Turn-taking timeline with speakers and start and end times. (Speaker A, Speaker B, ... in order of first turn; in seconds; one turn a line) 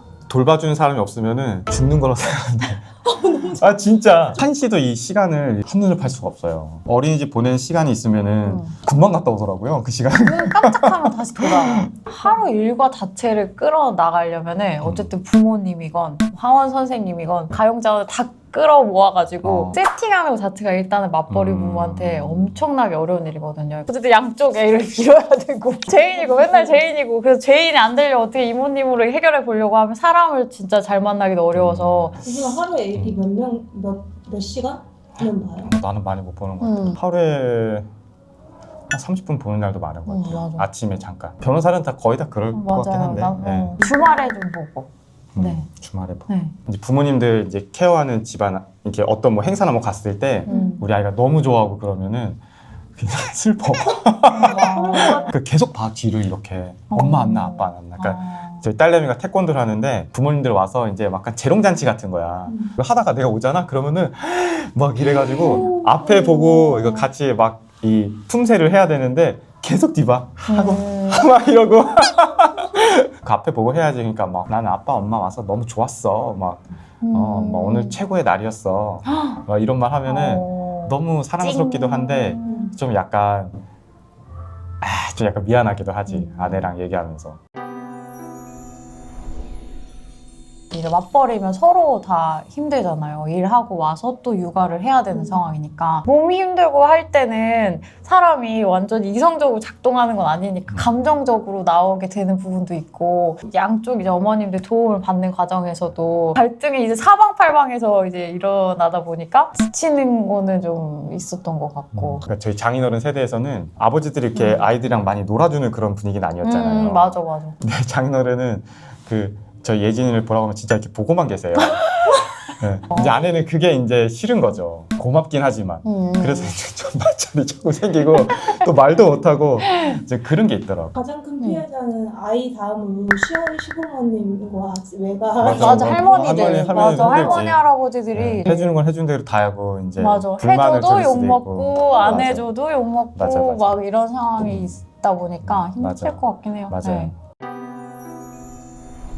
Speaker A: 0.3-2.9
Speaker B: 3.0-3.9
Speaker A: 3.6-11.9
Speaker C: 8.4-8.8
Speaker C: 10.2-32.2
Speaker A: 14.8-15.1
Speaker A: 19.4-19.8
Speaker A: 21.3-22.6
Speaker B: 25.9-26.8
Speaker A: 31.5-32.3
Speaker B: 32.2-35.7
Speaker A: 33.0-33.2
Speaker A: 35.6-37.9
Speaker C: 36.6-37.0
Speaker A: 38.9-43.8
Speaker C: 40.1-40.7
Speaker C: 42.5-45.7
Speaker B: 43.8-44.4
Speaker A: 45.4-52.4
Speaker C: 46.3-46.5
Speaker C: 50.5-50.9
Speaker B: 50.5-50.8
Speaker A: 53.0-83.6
Speaker C: 54.3-55.3
Speaker B: 54.4-55.3
Speaker C: 56.9-58.7
Speaker B: 62.5-62.8
Speaker B: 65.2-66.5
Speaker C: 65.4-67.1
Speaker C: 70.5-71.3
Speaker C: 77.0-78.0
Speaker C: 79.0-79.4
Speaker C: 80.0-82.7
Speaker B: 82.4-82.8
Speaker A: 84.8-87.4
Speaker C: 86.1-86.7
Speaker C: 90.7-112.2
Speaker B: 95.1-95.4
Speaker A: 111.9-121.8
Speaker C: 114.3-114.7
Speaker C: 116.4-117.6
Speaker A: 122.6-130.9
Speaker C: 122.9-123.2
Speaker C: 125.8-126.6
Speaker C: 129.7-130.0
Speaker B: 130.9-137.5
Speaker A: 135.4-142.5
Speaker C: 135.4-138.7
Speaker C: 140.0-147.1
Speaker A: 143.2-143.8
Speaker A: 144.4-144.8
Speaker A: 145.4-147.2